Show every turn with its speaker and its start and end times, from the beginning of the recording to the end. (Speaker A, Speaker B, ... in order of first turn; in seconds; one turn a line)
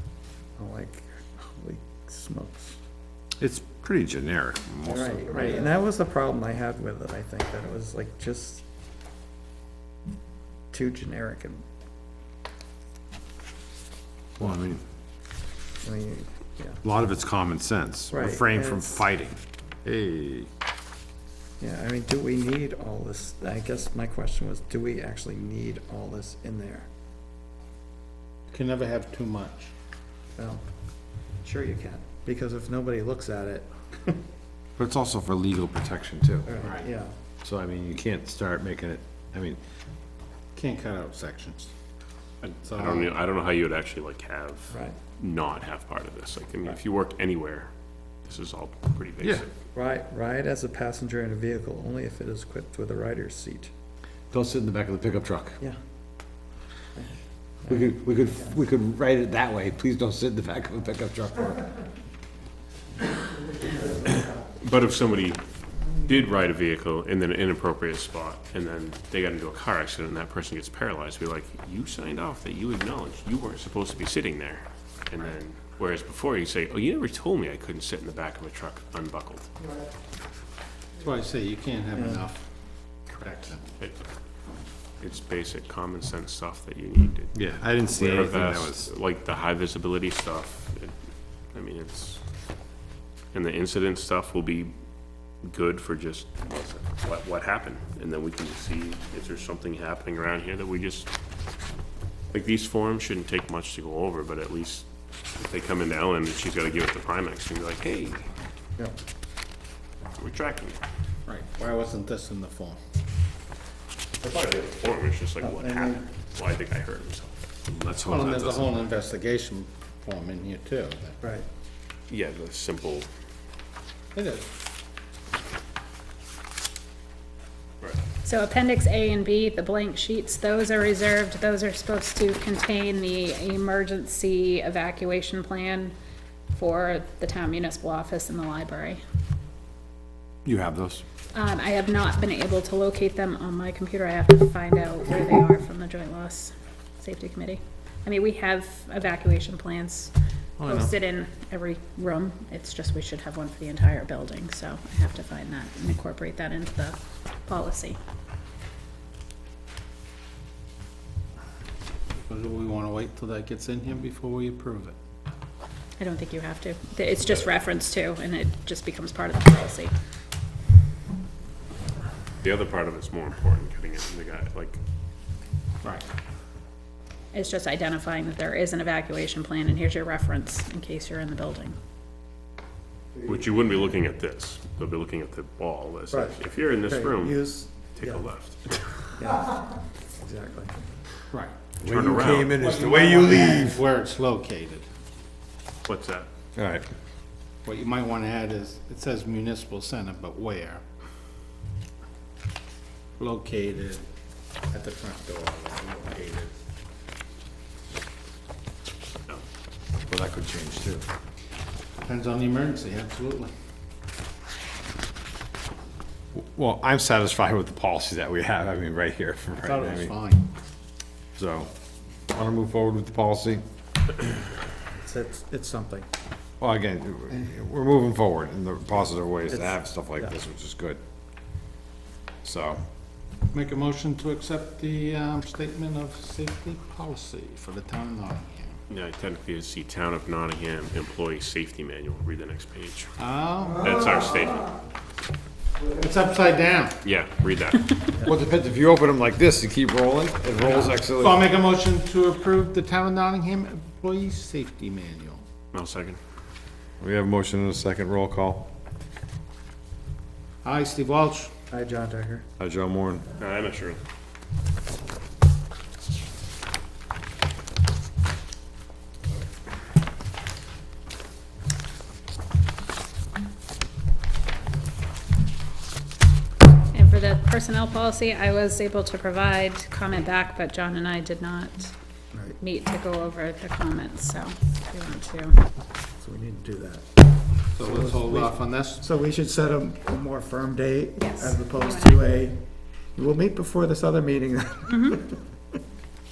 Speaker A: 0.6-2.8
Speaker B: 3.4-5.7
Speaker A: 4.8-8.6
Speaker A: 10.7-11.6
Speaker B: 14.4-14.8
Speaker A: 15.8-16.8
Speaker B: 16.8-20.5
Speaker A: 18.1-19.0
Speaker A: 21.6-26.9
Speaker C: 28.5-29.7
Speaker A: 30.4-30.6
Speaker A: 31.4-34.2
Speaker B: 34.8-36.5
Speaker A: 36.5-37.1
Speaker C: 36.6-36.9
Speaker B: 37.4-39.6
Speaker C: 40.5-41.7
Speaker D: 42.4-47.7
Speaker C: 42.6-43.1
Speaker A: 44.7-45.0
Speaker D: 48.2-49.5
Speaker A: 49.7-53.7
Speaker B: 54.3-55.6
Speaker A: 57.6-57.9
Speaker B: 57.7-61.6
Speaker A: 63.6-64.2
Speaker D: 64.5-65.4
Speaker D: 66.0-79.5
Speaker C: 81.0-82.4
Speaker A: 81.9-82.2
Speaker C: 83.2-83.7
Speaker D: 85.0-90.9
Speaker B: 87.3-88.9
Speaker D: 91.5-92.2
Speaker D: 93.3-94.7
Speaker D: 95.4-101.1
Speaker D: 102.3-104.8
Speaker D: 105.4-108.3
Speaker D: 110.2-110.8
Speaker C: 111.3-112.8
Speaker D: 114.2-117.3
Speaker A: 115.4-116.0
Speaker B: 117.7-118.7
Speaker C: 118.0-121.2
Speaker D: 122.1-123.1
Speaker C: 124.1-124.5
Speaker E: 128.2-135.9
Speaker E: 136.5-139.0
Speaker B: 140.4-141.0
Speaker E: 141.3-158.0
Speaker B: 150.6-150.9
Speaker C: 162.2-165.0
Speaker E: 166.0-169.9
Speaker D: 172.4-174.8
Speaker E: 177.3-181.8
Speaker D: 183.2-187.4
Speaker A: 186.1-188.2
Speaker D: 187.9-188.8
Speaker A: 189.2-189.6
Speaker A: 190.2-190.8
Speaker C: 191.3-191.6
Speaker D: 191.8-192.6
Speaker B: 191.8-193.8
Speaker C: 192.5-194.8
Speaker D: 195.8-196.3
Speaker B: 196.6-196.8
Speaker C: 197.6-200.8
Speaker C: 203.2-204.0
Speaker C: 204.7-206.5
Speaker B: 210.1-211.1
Speaker C: 212.0-213.5
Speaker B: 216.3-220.1
Speaker C: 219.6-220.4
Speaker B: 221.3-221.7
Speaker B: 222.3-223.6
Speaker A: 224.9-226.1
Speaker B: 226.6-231.0
Speaker A: 229.5-230.3
Speaker B: 232.4-232.8
Speaker C: 233.5-238.8
Speaker D: 238.9-243.1
Speaker C: 243.2-243.8
Speaker D: 243.8-244.7
Speaker C: 245.9-247.0
Speaker D: 247.0-247.9
Speaker B: 248.2-251.5
Speaker C: 250.5-255.4
Speaker D: 255.7-256.2
Speaker B: 257.0-258.7
Speaker C: 260.6-261.5
Speaker A: 261.7-262.4
Speaker B: 262.6-263.3
Speaker D: 263.4-264.0
Speaker E: 276.9-281.9
Speaker A: 282.3-282.6
Speaker E: 282.6-285.6
Speaker A: 286.2-287.1
Speaker C: 287.7-289.0
Speaker A: 287.8-292.6
Speaker E: 291.2-292.2
Speaker A: 293.1-295.4
Speaker E: 294.9-295.2